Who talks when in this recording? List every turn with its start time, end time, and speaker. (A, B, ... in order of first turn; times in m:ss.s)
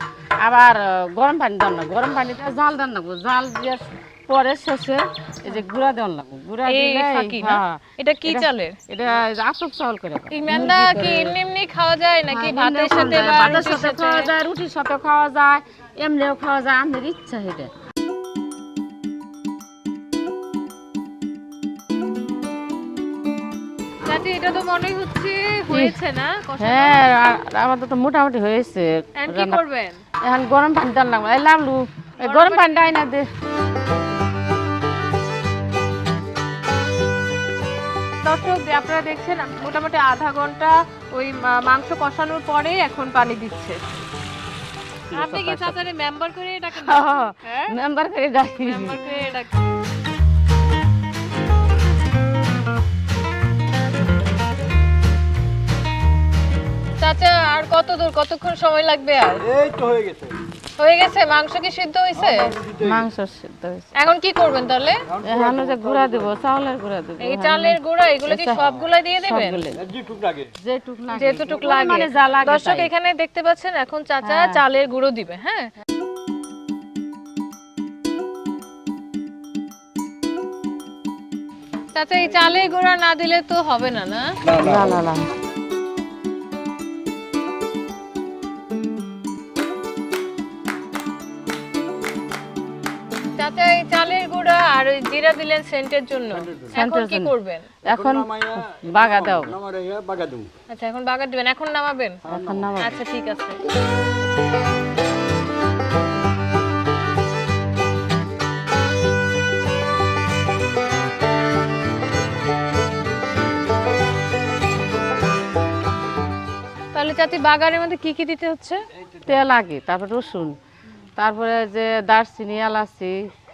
0:00.4-0:11.4 A
0:06.7-0:08.8 B
0:10.3-0:14.3 B
0:12.3-0:17.7 A
0:24.1-0:27.0 B
0:25.7-0:26.0 A
0:26.6-0:29.6 A
0:29.2-0:30.0 B
0:30.2-0:33.3 A
0:32.2-0:32.7 B
0:38.2-0:43.8 B
0:45.1-0:45.8 A
0:45.1-0:47.7 B
0:46.7-0:49.0 A
0:48.6-0:49.6 B
0:57.0-0:59.5 B
0:59.5-1:00.4 C
1:00.8-1:02.5 B
1:02.2-1:03.0 C
1:02.8-1:03.9 A
1:04.0-1:05.0 B
1:05.1-1:06.4 C
1:05.2-1:09.8 A
1:07.2-1:09.7 B
1:09.8-1:10.5 C
1:10.6-1:12.9 A
1:11.1-1:15.7 B
1:14.2-1:14.6 A
1:21.9-1:24.4 B
1:24.4-1:25.0 C
1:24.5-1:25.3 A
1:33.4-1:37.7 B
1:36.4-1:36.8 C
1:36.7-1:39.6 A
1:37.8-1:40.5 C
1:40.7-1:42.2 B
1:42.2-1:42.7 C
1:42.3-1:43.0 A
1:42.8-1:43.6 B
1:56.9-1:58.8 B
1:59.2-2:00.6 A
2:01.2-2:03.2 A